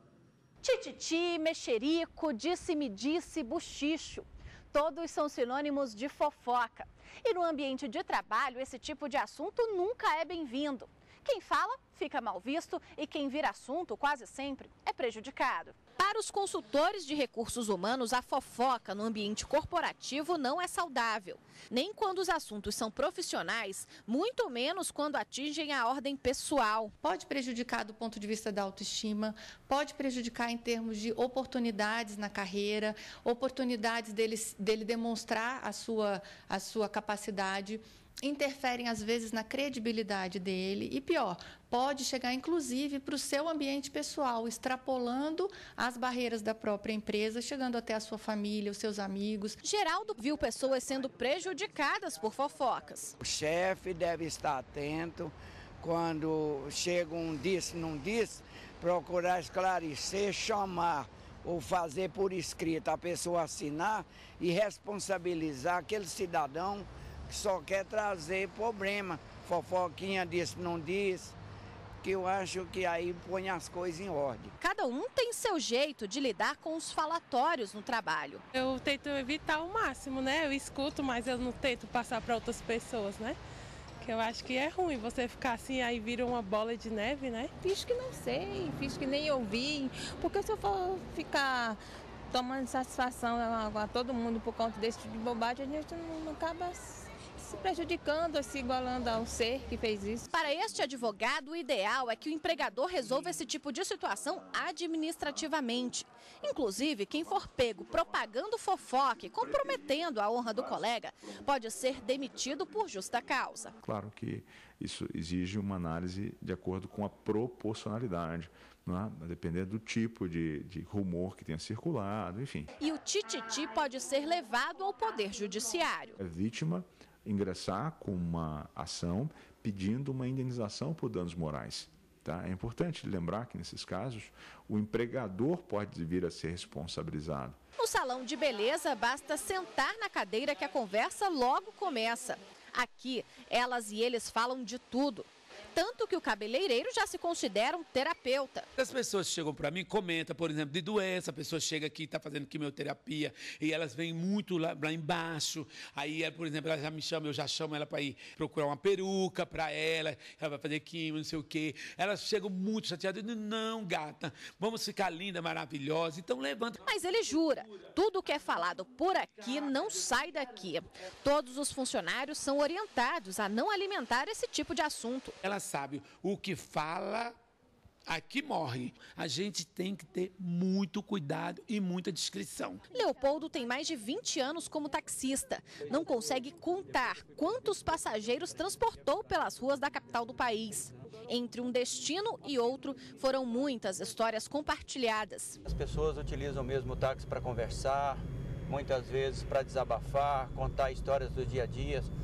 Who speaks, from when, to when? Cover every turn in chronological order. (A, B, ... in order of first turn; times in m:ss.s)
0:00.6-0:26.9 A
0:27.0-0:49.6 B
0:49.6-0:53.2 A
0:53.2-1:11.4 C
1:12.0-1:14.5 C
1:14.6-1:18.4 A
1:18.5-1:23.4 D
1:24.0-1:27.5 D
1:27.6-1:40.3 E
1:40.3-1:53.7 A
1:53.8-2:02.7 F
2:02.8-2:06.2 A
2:06.2-2:17.6 F
2:17.8-2:28.7 A
2:28.8-2:46.8 G
2:46.8-2:55.4 A
2:55.4-2:57.4 G
2:58.1-3:02.8 G
3:02.9-3:15.6 A
3:15.6-3:22.1 H